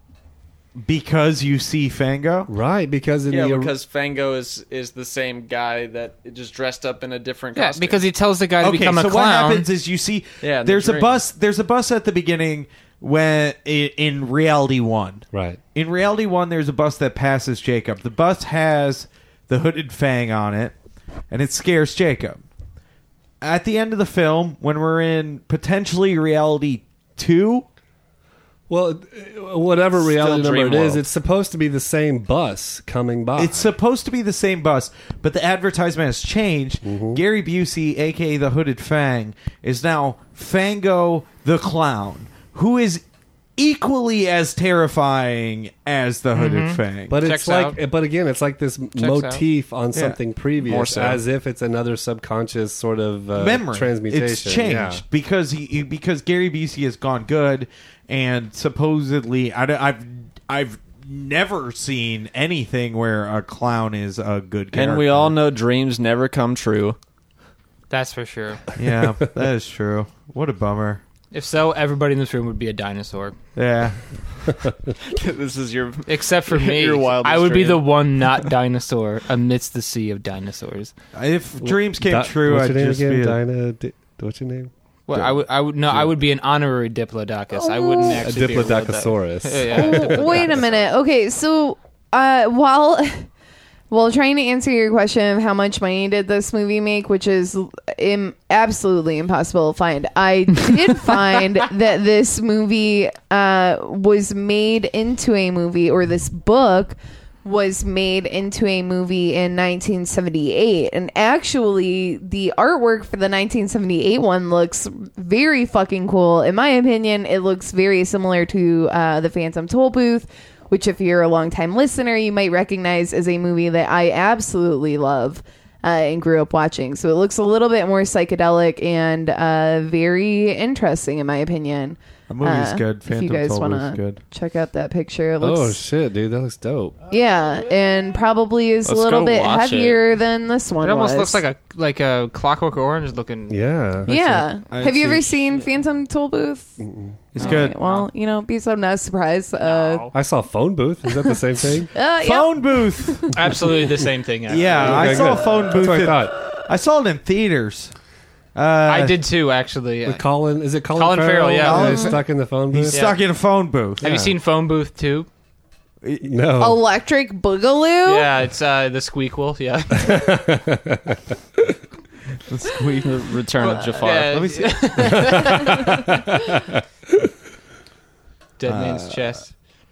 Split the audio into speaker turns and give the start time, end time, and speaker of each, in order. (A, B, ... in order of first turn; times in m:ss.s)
0:00.8-0:02.5 A
0:02.5-0:03.7 B
0:03.3-0:08.0 C
0:07.6-0:09.7 D
0:08.6-0:20.7 A
0:10.4-0:11.2 C
0:15.3-0:15.6 B
0:21.3-0:22.4 A
0:23.4-0:27.7 A
0:28.7-0:33.7 B
0:30.0-0:31.0 C
0:33.4-0:43.0 A
0:36.8-0:37.2 B
0:43.6-0:47.2 A
0:46.3-0:47.8 D
0:47.1-0:55.0 B
0:49.0-0:49.4 D
0:50.6-0:51.2 C
0:53.4-1:05.4 A
1:04.7-1:07.0 C
1:07.9-1:08.7 D
1:08.8-1:11.0 A
1:11.3-1:13.4 D
1:13.6-1:14.0 A
1:15.1-1:17.9 C
1:16.1-1:20.9 D
1:21.2-1:23.4 A
1:21.6-1:24.7 B
1:25.1-1:30.8 D
1:27.5-1:28.2 E
1:28.1-1:30.6 B
1:29.7-1:33.3 E
1:33.9-2:15.8 E
2:12.3-2:14.2 A
2:15.4-2:17.0 B
2:17.1-2:21.4 E
2:18.8-2:20.0 C
2:20.8-2:23.6 D
2:23.5-2:24.4 B
2:24.1-2:26.8 E
2:24.2-2:25.3 A
2:26.8-2:27.2 B
2:27.3-2:27.8 A
2:27.3-2:30.0 E
2:27.4-2:28.1 D
2:29.6-2:30.1 D
2:30.1-2:31.9 B
2:31.9-2:33.3 E
2:32.2-2:33.4 A
2:33.3-2:35.3 D
2:34.5-2:37.9 A
2:34.7-2:36.4 B
2:38.6-2:39.2 A
2:38.9-2:40.2 D
2:40.1-2:43.0 B
2:40.9-2:42.1 D
2:41.6-2:42.2 A
2:42.7-2:44.0 A
2:42.9-2:43.2 D
2:44.0-2:44.3 B
2:44.0-2:45.3 D
2:46.0-2:46.3 A
2:46.2-2:46.8 B
2:46.6-2:48.3 E
2:48.1-2:50.4 D
2:50.0-2:51.8 B
2:52.5-2:55.8 A
2:53.0-2:54.5 C
2:53.8-2:56.0 D
2:55.2-2:56.3 B
2:58.6-2:59.5 D
2:58.7-2:59.4 A